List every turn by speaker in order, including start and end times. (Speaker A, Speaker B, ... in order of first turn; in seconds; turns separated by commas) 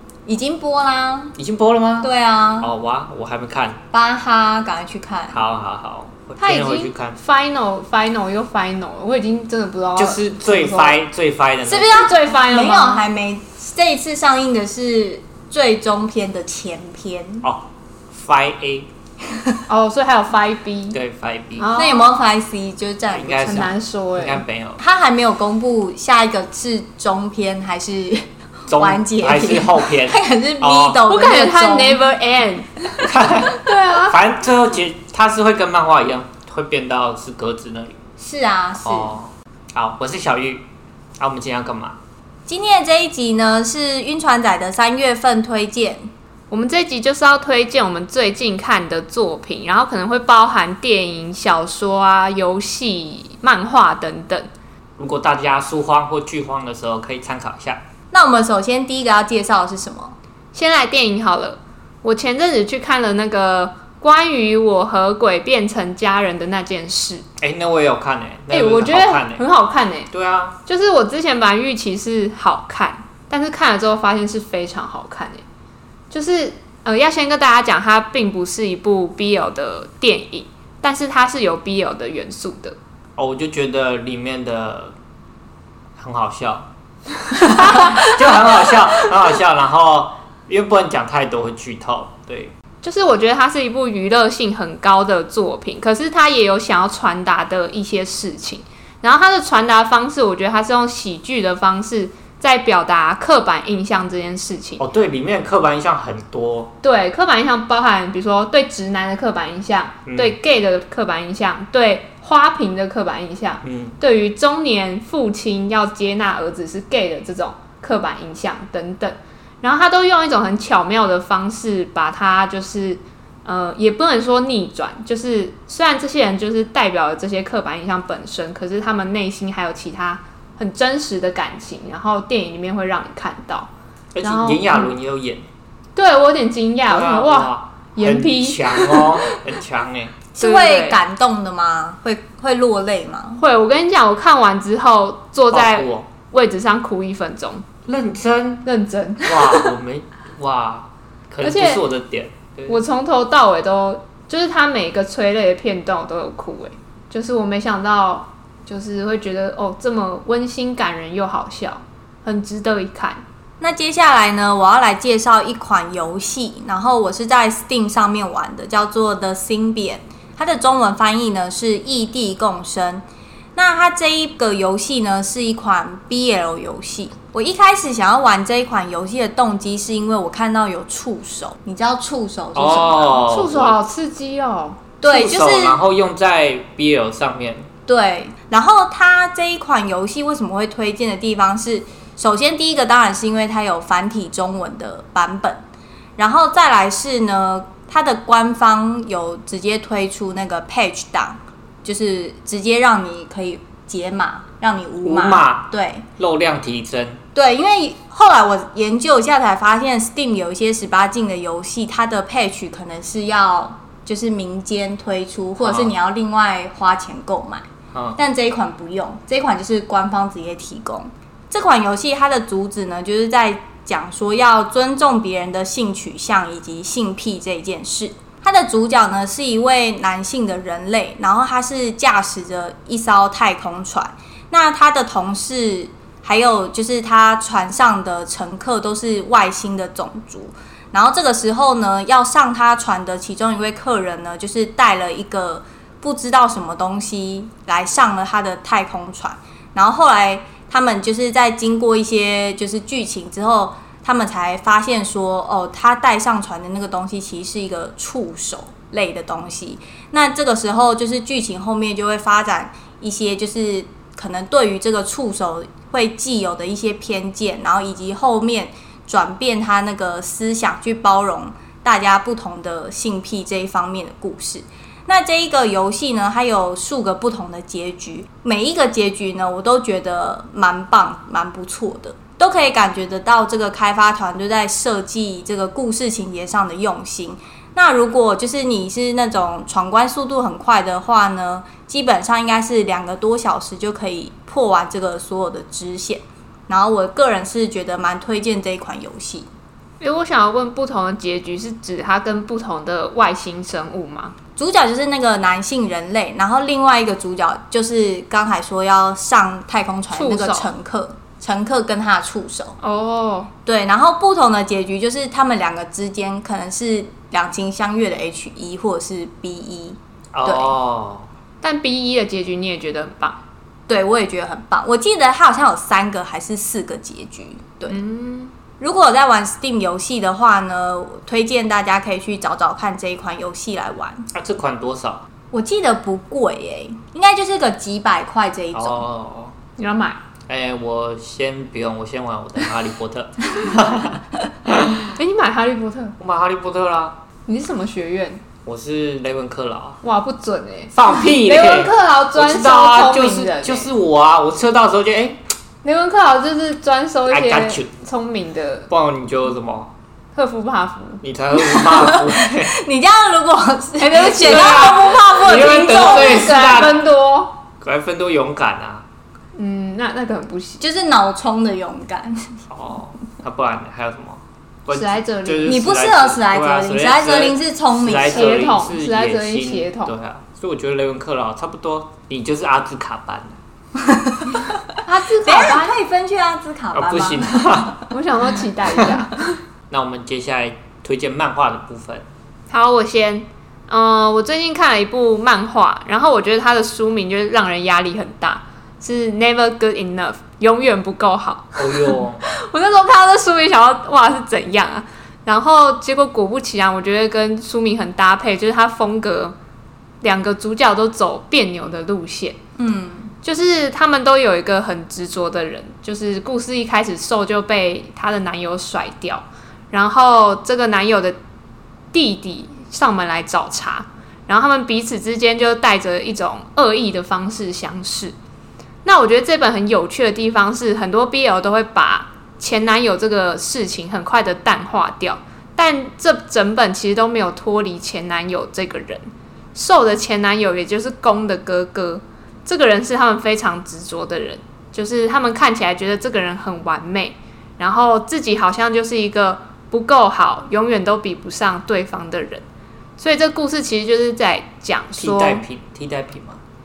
Speaker A: 0.3-1.4, Speaker B: 1.4-2.1, Speaker A: 2.0-2.7, Speaker B: 2.6-3.8, Speaker A: 3.9-5.4, Speaker B: 5.3-7.2, Speaker C: 6.4-11.0, Speaker B: 10.0-12.0, Speaker C: 11.7-13.1, Speaker A: 11.7-17.5, Speaker B: 17.4-18.9, Speaker C: 19.7-21.0, Speaker B: 20.9-21.7, Speaker C: 21.6-22.1, Speaker A: 21.8-23.7, Speaker B: 23.1-24.8, Speaker C: 23.5-24.4, Speaker A: 24.8-32.0, Speaker B: 28.7-31.0, Speaker C: 31.1-34.2, Speaker B: 33.1-38.0, Speaker A: 38.2-39.2, Speaker B: 38.8-40.6, Speaker B: 41.2-42.0, Speaker A: 42.5-46.1, Speaker C: 46.5-54.5, Speaker B: 55.0-57.8, Speaker A: 58.1-60.2, Speaker C: 60.5-67.2, Speaker B: 67.4-69.4, Speaker C: 68.5-70.1, Speaker B: 70.1-70.6, Speaker C: 70.7-75.4, Speaker C: 76.1-82.8, Speaker B: 83.2-84.9, Speaker B: 86.0-86.7, Speaker B: 87.3-92.5, Speaker C: 87.7-88.0, Speaker C: 92.8-104.8, Speaker B: 104.8-106.7, Speaker C: 106.8-133.7, Speaker B: 110.1-110.4, Speaker B: 113.6-114.0, Speaker B: 134.2-135.4, Speaker C: 134.2-134.9, Speaker C: 135.9-139.4, Speaker B: 136.9-140.2, Speaker A: 140.3-143.4, Speaker C: 140.4-141.0, Speaker C: 143.4-147.7, Speaker B: 145.5-146.1, Speaker B: 147.9-148.7, Speaker C: 148.6-149.7, Speaker B: 149.2-152.8, Speaker C: 151.4-151.9, Speaker C: 152.7-163.2, Speaker A: 163.6-173.0, Speaker A: 173.6-183.2, Speaker B: 182.6-183.8, Speaker C: 183.2-184.8, Speaker A: 185.0-185.8, Speaker B: 185.0-187.7, Speaker A: 187.9-195.6, Speaker A: 196.2-206.1, Speaker B: 205.0-207.2, Speaker A: 207.3-217.7, Speaker B: 215.6-215.9, Speaker B: 217.9-218.2, Speaker A: 218.2-299.5, Speaker C: 300.0-304.4, Speaker A: 304.6-312.8, Speaker C: 310.1-310.7, Speaker C: 312.8-313.5, Speaker A: 313.7-320.7, Speaker B: 320.3-321.3, Speaker C: 321.6-323.4, Speaker A: 323.9-328.0, Speaker C: 327.9-328.5, Speaker A: 328.8-334.3, Speaker B: 334.3-335.2, Speaker A: 335.5-339.0, Speaker B: 338.7-339.6, Speaker C: 339.8-340.2, Speaker B: 340.5-345.1, Speaker C: 345.1-346.2, Speaker B: 346.2-347.2, Speaker C: 347.5-348.4, Speaker B: 348.7-350.0, Speaker C: 350.0-353.9, Speaker B: 350.9-355.4, Speaker C: 355.8-358.9, Speaker B: 357.3-357.9, Speaker B: 358.9-359.9, Speaker C: 360.3-361.2, Speaker B: 361.2-362.7, Speaker A: 361.6-366.5, Speaker C: 364.3-367.6, Speaker B: 364.4-367.0, Speaker B: 367.8-369.1, Speaker C: 369.6-370.8, Speaker A: 370.8-372.6, Speaker B: 372.7-383.6, Speaker C: 374.9-375.8, Speaker A: 375.6-378.6, Speaker C: 378.3-380.1, Speaker A: 384.0-384.5, Speaker C: 385.1-385.9, Speaker A: 385.4-388.1, Speaker B: 386.9-388.0, Speaker C: 388.1-389.5, Speaker B: 389.9-392.2, Speaker C: 392.7-409.6, Speaker B: 401.8-402.4, Speaker C: 410.2-412.6, Speaker A: 412.8-413.3, Speaker C: 413.4-421.4, Speaker C: 422.1-428.4, Speaker C: 429.0-452.7, Speaker C: 453.2-455.6, Speaker B: 455.2-456.6